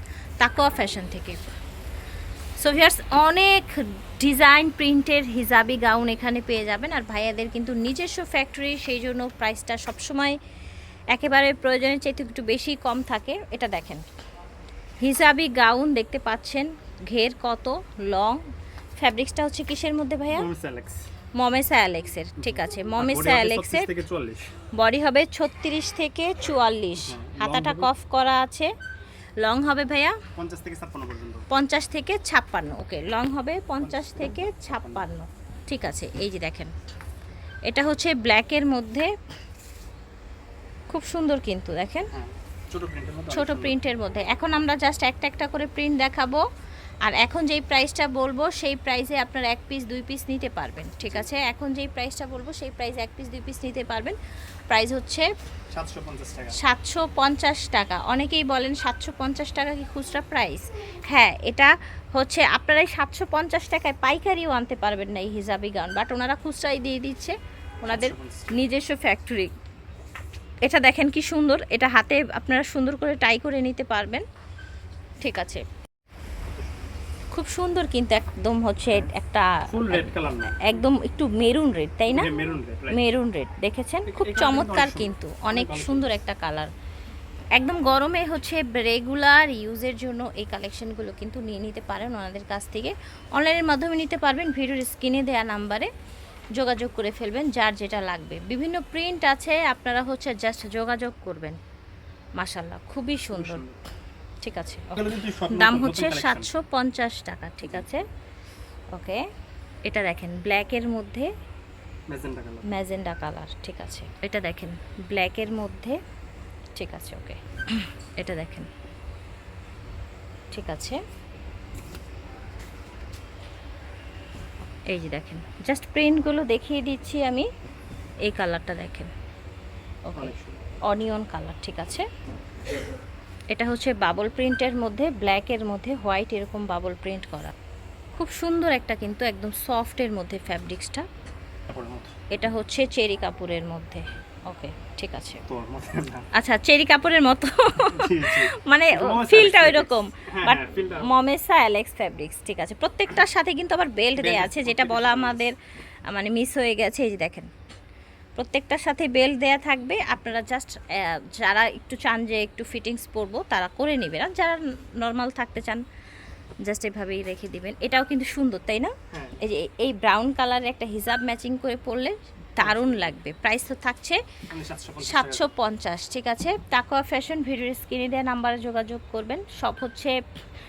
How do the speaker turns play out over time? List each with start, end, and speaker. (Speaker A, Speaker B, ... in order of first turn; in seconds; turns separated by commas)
Speaker A: 0.4-1.5, Speaker A: 2.6-10.4, Speaker A: 11.1-14.0, Speaker A: 15.0-18.4, Speaker A: 19.0-20.5, Speaker B: 20.3-21.1, Speaker A: 21.4-23.9, Speaker B: 22.4-24.5, Speaker A: 24.7-28.7, Speaker B: 27.0-27.9, Speaker A: 29.4-30.2, Speaker B: 30.3-31.4, Speaker A: 31.5-36.7, Speaker B: 33.8-35.1, Speaker A: 37.7-39.1, Speaker A: 40.9-42.1, Speaker B: 42.1-43.8, Speaker A: 43.3-46.4, Speaker A: 47.0-54.2, Speaker A: 54.7-55.3, Speaker B: 55.7-56.6, Speaker A: 56.5-69.5, Speaker B: 67.9-68.7, Speaker A: 70.6-74.2, Speaker A: 75.2-75.6, Speaker B: 76.5-76.9, Speaker A: 77.3-82.3, Speaker B: 79.7-80.8, Speaker B: 82.1-83.0, Speaker A: 82.9-86.7, Speaker B: 84.0-86.1, Speaker A: 87.5-95.9, Speaker A: 96.5-101.6, Speaker A: 102.4-103.6, Speaker B: 103.3-103.8, Speaker A: 104.4-108.0, Speaker B: 104.9-106.5, Speaker A: 108.9-109.2, Speaker A: 109.8-111.3, Speaker B: 112.1-112.7, Speaker A: 112.6-116.0, Speaker A: 116.8-118.7, Speaker A: 120.5-121.0, Speaker A: 124.9-127.5, Speaker A: 128.2-129.1, Speaker A: 130.1-130.3, Speaker B: 130.1-130.6, Speaker A: 130.9-132.1, Speaker A: 133.5-137.5, Speaker A: 138.2-141.1, Speaker B: 141.7-142.1, Speaker A: 142.3-145.4, Speaker B: 145.5-146.3, Speaker A: 146.3-155.6, Speaker B: 147.9-151.1, Speaker B: 154.2-155.5, Speaker A: 156.1-157.5, Speaker A: 158.4-165.8, Speaker A: 166.6-174.2, Speaker B: 169.1-169.4, Speaker B: 172.6-173.1, Speaker B: 174.5-175.5, Speaker A: 175.0-180.2